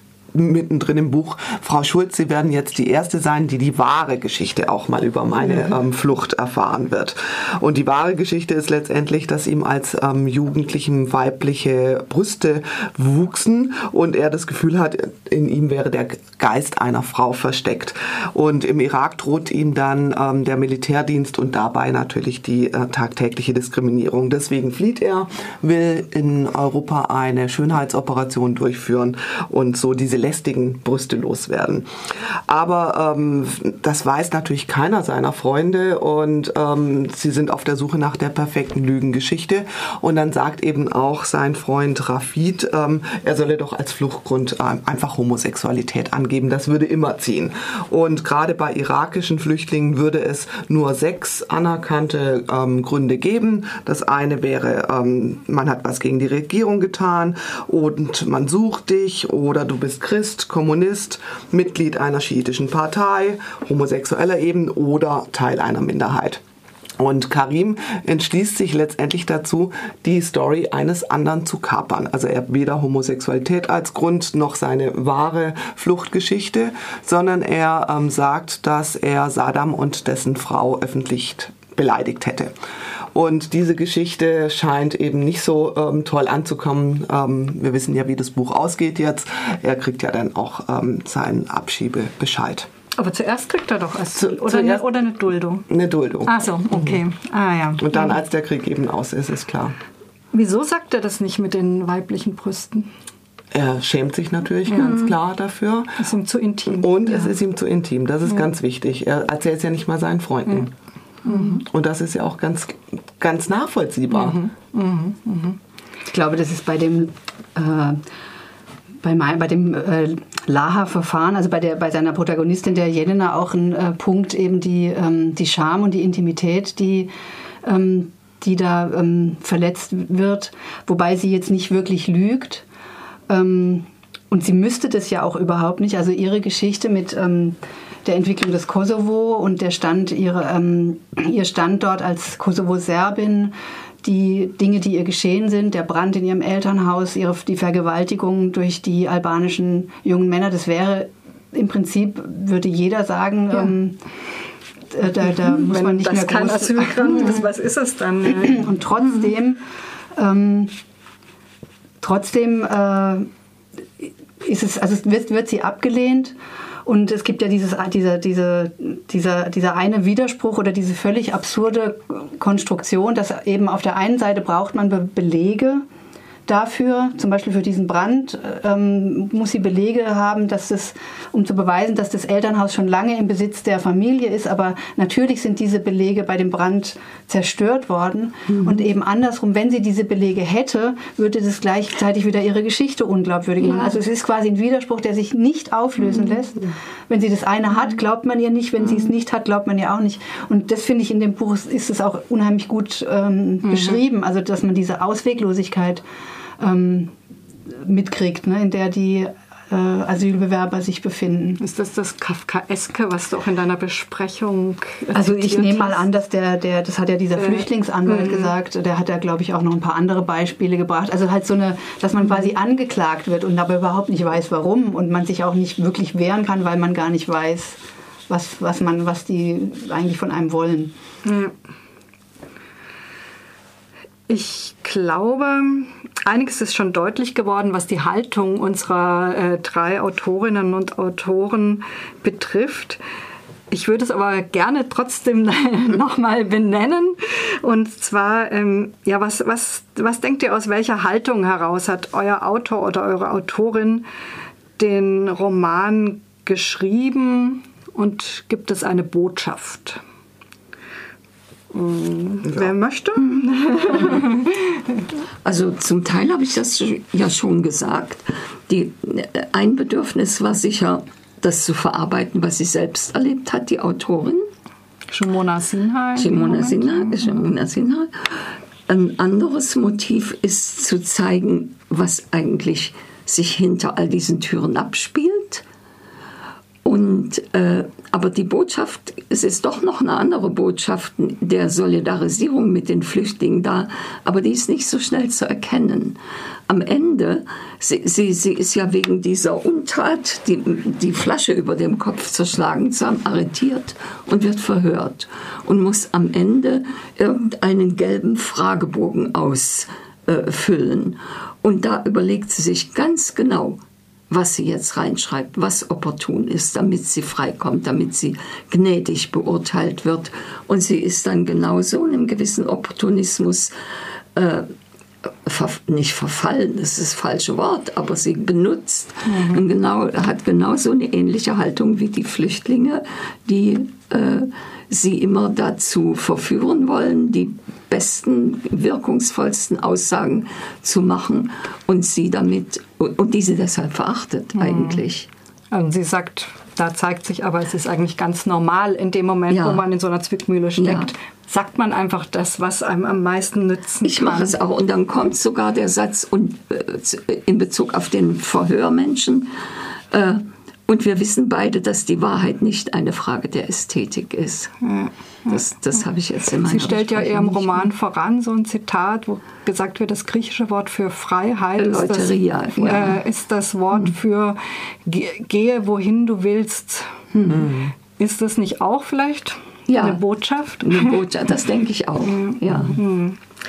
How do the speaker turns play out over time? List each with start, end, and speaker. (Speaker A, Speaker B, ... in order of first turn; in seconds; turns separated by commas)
Speaker A: 0.3-31.9, Speaker A: 32.5-66.4, Speaker A: 67.0-82.5, Speaker A: 83.1-92.7, Speaker B: 92.9-95.7, Speaker A: 94.2-94.8, Speaker A: 95.7-97.0, Speaker B: 96.2-98.1, Speaker A: 97.8-99.8, Speaker B: 100.3-102.9, Speaker A: 103.5-106.0, Speaker B: 106.0-107.3, Speaker A: 106.7-110.7, Speaker B: 111.2-111.6, Speaker A: 111.4-114.4, Speaker B: 114.1-115.6, Speaker C: 116.1-118.0, Speaker C: 119.0-127.1, Speaker C: 127.6-132.6, Speaker C: 133.3-154.0, Speaker C: 154.9-157.5, Speaker B: 155.4-158.7, Speaker C: 158.3-159.6, Speaker C: 160.1-160.7, Speaker C: 162.0-163.3, Speaker C: 164.0-175.8, Speaker C: 176.5-206.0, Speaker B: 203.6-204.0, Speaker C: 206.6-207.1, Speaker C: 207.7-211.6, Speaker B: 211.6-216.1, Speaker C: 215.1-230.9, Speaker B: 217.3-218.5, Speaker B: 231.2-231.5, Speaker B: 234.3-243.0, Speaker B: 243.7-254.0, Speaker B: 254.8-260.0, Speaker B: 261.7-264.8, Speaker A: 262.4-262.7, Speaker D: 265.4-274.4, Speaker B: 275.1-277.4, Speaker D: 276.1-285.6, Speaker D: 286.8-323.7, Speaker D: 324.3-324.7, Speaker D: 325.2-345.3, Speaker B: 329.2-329.6, Speaker B: 344.5-345.0, Speaker B: 345.7-354.6, Speaker D: 349.5-349.8, Speaker D: 350.8-351.1, Speaker D: 354.0-359.5, Speaker D: 360.1-364.7, Speaker B: 364.8-365.6, Speaker D: 365.5-367.9, Speaker B: 366.6-377.2, Speaker D: 371.8-373.2, Speaker D: 377.3-377.6, Speaker A: 377.5-377.9, Speaker B: 378.1-381.2, Speaker D: 379.9-380.2, Speaker D: 380.8-383.0, Speaker B: 382.2-383.4